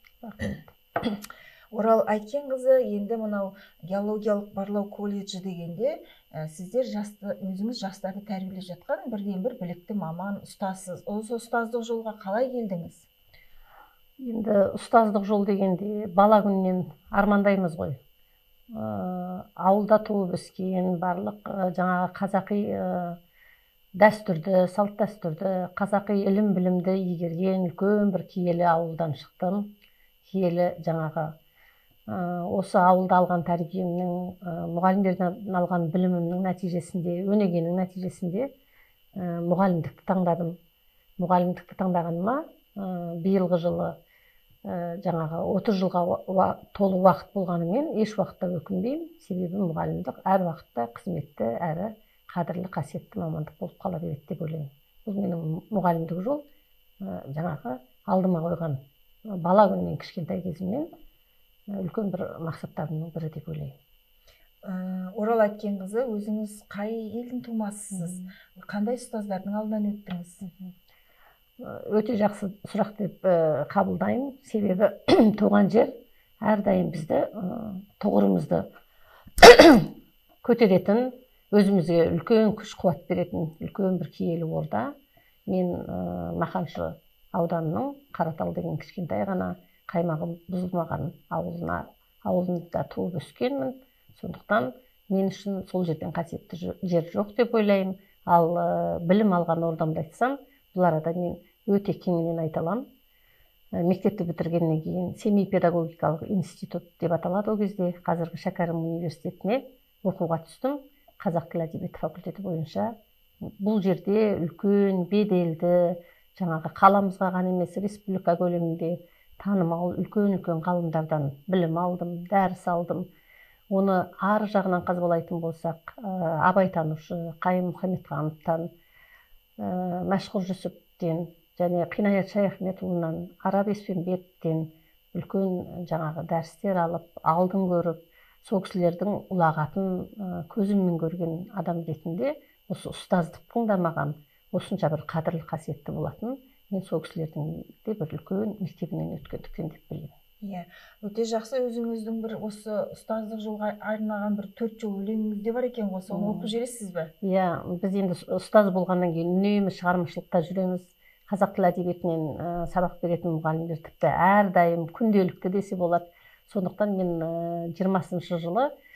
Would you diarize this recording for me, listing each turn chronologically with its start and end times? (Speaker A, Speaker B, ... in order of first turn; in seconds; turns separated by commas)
Speaker A: 0.2-1.1, Speaker B: 1.7-13.1, Speaker A: 14.2-18.0, Speaker A: 18.7-23.2, Speaker A: 24.0-29.7, Speaker A: 30.3-31.3, Speaker A: 32.1-38.5, Speaker A: 39.2-40.5, Speaker A: 41.2-44.0, Speaker A: 44.6-56.4, Speaker A: 57.0-58.8, Speaker A: 59.3-60.9, Speaker A: 61.7-63.7, Speaker B: 64.6-70.4, Speaker A: 67.9-68.3, Speaker A: 70.4-70.7, Speaker A: 71.6-78.7, Speaker A: 79.4-79.9, Speaker A: 80.4-84.9, Speaker A: 85.5-102.8, Speaker A: 103.8-112.9, Speaker A: 113.6-123.1, Speaker A: 123.7-128.7, Speaker A: 129.6-150.1, Speaker B: 150.4-157.1, Speaker A: 156.1-156.5, Speaker A: 157.2-168.7